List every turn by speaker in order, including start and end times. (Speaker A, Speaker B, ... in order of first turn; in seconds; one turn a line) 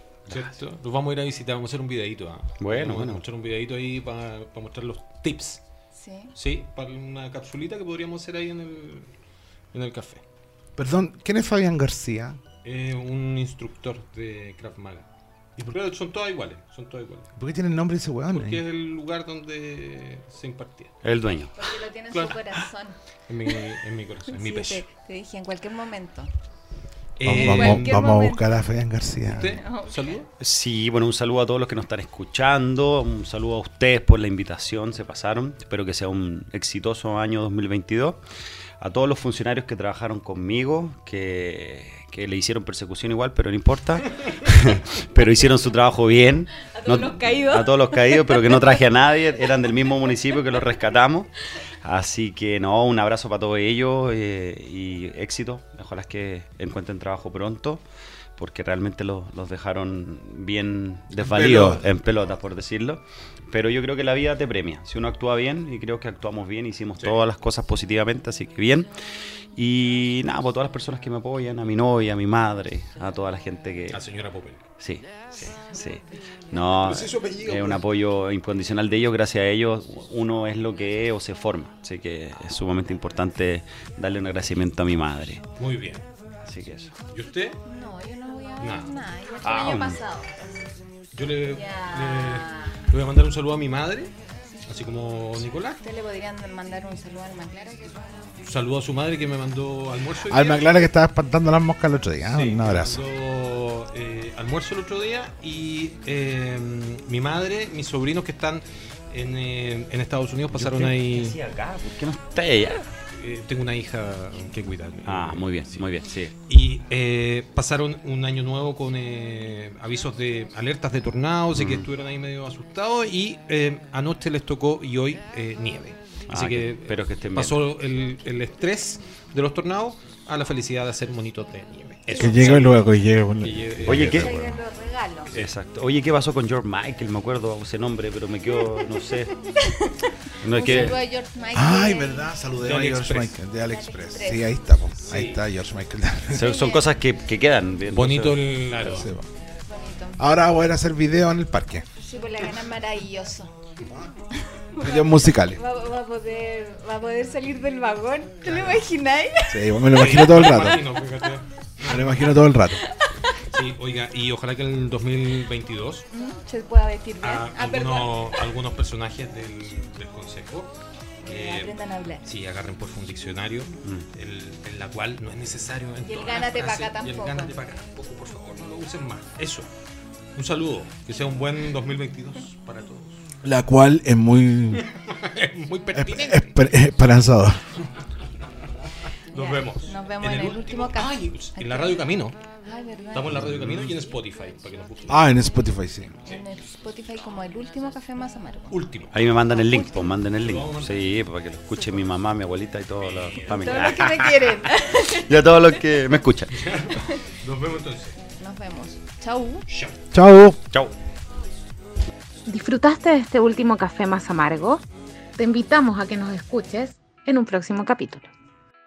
Speaker A: 0.3-5.6
Speaker B: 2.6-3.2
Speaker C: 5.9-6.3
Speaker A: 6.3-9.1
Speaker A: 9.7-10.2
Speaker D: 10.8-12.4
Speaker A: 12.6-15.1
Speaker A: 15.6-17.3
Speaker D: 17.4-18.6
Speaker A: 18.3-20.9
Speaker B: 21.0-21.5
Speaker C: 21.5-23.6
Speaker A: 22.1-22.6
Speaker A: 23.3-24.8
Speaker C: 24.3-26.3
Speaker A: 27.2-28.1
Speaker D: 27.2-29.6
Speaker C: 27.2-28.4
Speaker A: 29.3-30.3
Speaker C: 29.4-30.2
Speaker B: 30.4-38.2
Speaker B: 38.8-51.3
Speaker C: 46.6-48.8
Speaker B: 51.8-57.8
Speaker B: 58.4-74.0
Speaker D: 61.2-61.8
Speaker A: 73.9-74.6
Speaker B: 74.8-85.4
Speaker A: 76.8-77.8
Speaker A: 85.6-86.0
Speaker B: 86.5-87.0
Speaker A: 87.1-87.6
Speaker C: 87.6-90.5
Speaker A: 88.6-89.0
Speaker B: 89.4-90.0
Speaker A: 91.1-94.1
Speaker C: 91.5-92.8
Speaker A: 94.7-95.8
Speaker C: 95.8-98.4
Speaker A: 98.4-100.9
Speaker D: 100.2-103.0
Speaker A: 102.2-111.4
Speaker B: 110.5-112.9
Speaker A: 113.1-115.8
Speaker B: 115.0-116.3
Speaker A: 116.5-132.9
Speaker B: 121.5-121.9
Speaker B: 126.3-127.6
Speaker C: 132.1-132.6
Speaker D: 132.2-134.4
Speaker A: 133.4-134.3
Speaker B: 133.8-134.5
Speaker C: 134.0-135.3
Speaker B: 135.3-139.3
Speaker C: 139.6-142.3
Speaker B: 140.4-141.0
Speaker D: 141.5-146.5
Speaker A: 142.6-143.3
Speaker C: 143.6-144.5
Speaker A: 145.0-145.4
Speaker B: 146.3-149.0
Speaker C: 146.3-146.8
Speaker A: 147.9-149.1
Speaker D: 148.9-149.2
Speaker C: 149.7-150.2
Speaker D: 150.2-151.8
Speaker C: 152.0-153.6
Speaker C: 154.6-159.8
Speaker D: 154.8-155.6
Speaker D: 159.5-160.9
Speaker A: 159.9-162.4
Speaker D: 161.8-162.8
Speaker C: 162.8-163.4
Speaker A: 163.5-166.1
Speaker C: 166.1-168.4
Speaker A: 167.2-170.7
Speaker C: 171.2-172.2
Speaker A: 171.3-179.7
Speaker C: 176.1-177.5
Speaker A: 180.3-183.2
Speaker D: 183.4-184.9
Speaker A: 184.8-186.6
Speaker D: 185.9-187.8
Speaker A: 189.3-192.3
Speaker C: 189.3-192.1
Speaker C: 192.6-193.4
Speaker A: 193.1-195.3
Speaker B: 193.4-193.8
Speaker D: 195.1-196.1
Speaker C: 196.2-198.8
Speaker A: 198.7-199.2
Speaker B: 199.1-206.6
Speaker C: 199.5-200.0
Speaker A: 200.4-201.1
Speaker A: 203.0-204.2
Speaker C: 203.4-205.6
Speaker A: 206.5-208.2
Speaker C: 206.9-207.2
Speaker C: 208.4-209.7
Speaker A: 209.7-210.0
Speaker D: 210.1-210.6
Speaker E: 212.4-214.8
Speaker E: 215.4-218.3